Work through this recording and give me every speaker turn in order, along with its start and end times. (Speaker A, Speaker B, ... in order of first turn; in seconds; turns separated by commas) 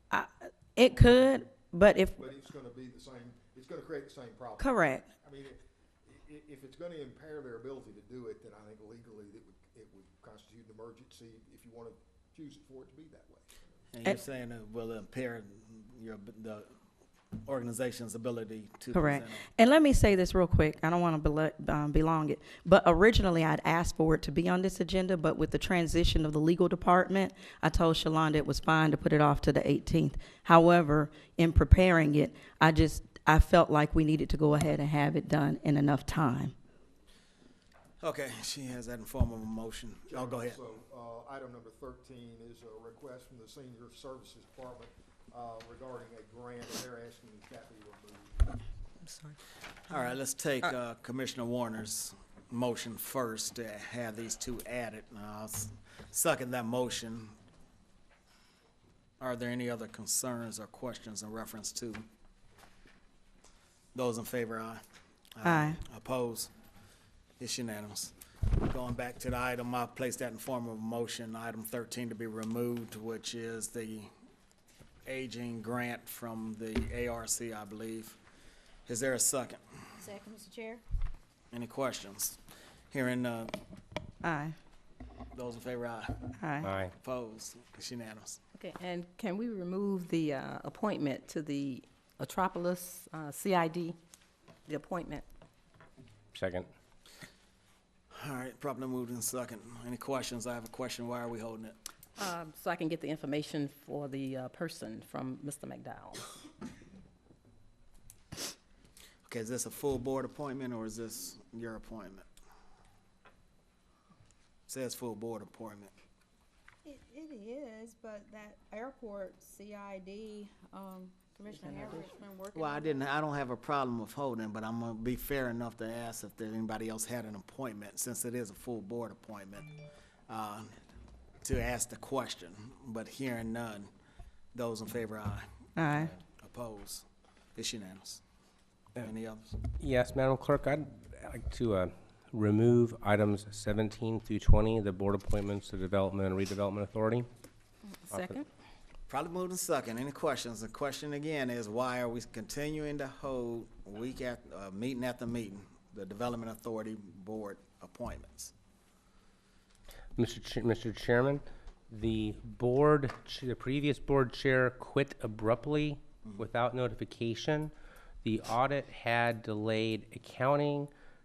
Speaker A: 0.1-2.2, Speaker B: 2.2-13.5, Speaker A: 4.6-5.0, Speaker C: 13.9-16.7, Speaker C: 17.4-19.5, Speaker A: 18.9-36.5, Speaker C: 38.0-40.6, Speaker B: 40.1-48.6, Speaker D: 49.0-49.4, Speaker C: 49.9-57.4, Speaker C: 59.2-62.1, Speaker C: 63.9-64.8, Speaker C: 65.4-66.5, Speaker A: 65.4-65.8, Speaker C: 67.4-74.1, Speaker C: 75.0-78.2, Speaker C: 78.9-79.8, Speaker E: 80.0-80.8, Speaker C: 81.5-82.4, Speaker C: 82.9-83.6, Speaker A: 84.2-84.6, Speaker C: 85.3-86.3, Speaker A: 86.4-86.7, Speaker F: 86.6-86.9, Speaker C: 87.0-88.4, Speaker D: 88.5-94.0, Speaker D: 94.7-95.2, Speaker F: 96.3-96.7, Speaker C: 98.1-101.8, Speaker D: 102.2-106.3, Speaker C: 109.3-112.3, Speaker C: 114.7-115.9, Speaker E: 116.8-123.0, Speaker D: 121.5-122.2, Speaker C: 122.5-129.7, Speaker C: 130.3-130.7, Speaker C: 131.4-133.9, Speaker C: 134.5-138.2, Speaker A: 135.8-136.1, Speaker C: 139.0-139.6, Speaker F: 139.8-147.3, Speaker D: 147.9-148.5, Speaker F: 148.1-148.4, Speaker C: 149.1-158.5, Speaker F: 160.2-167.7, Speaker F: 168.2-170.9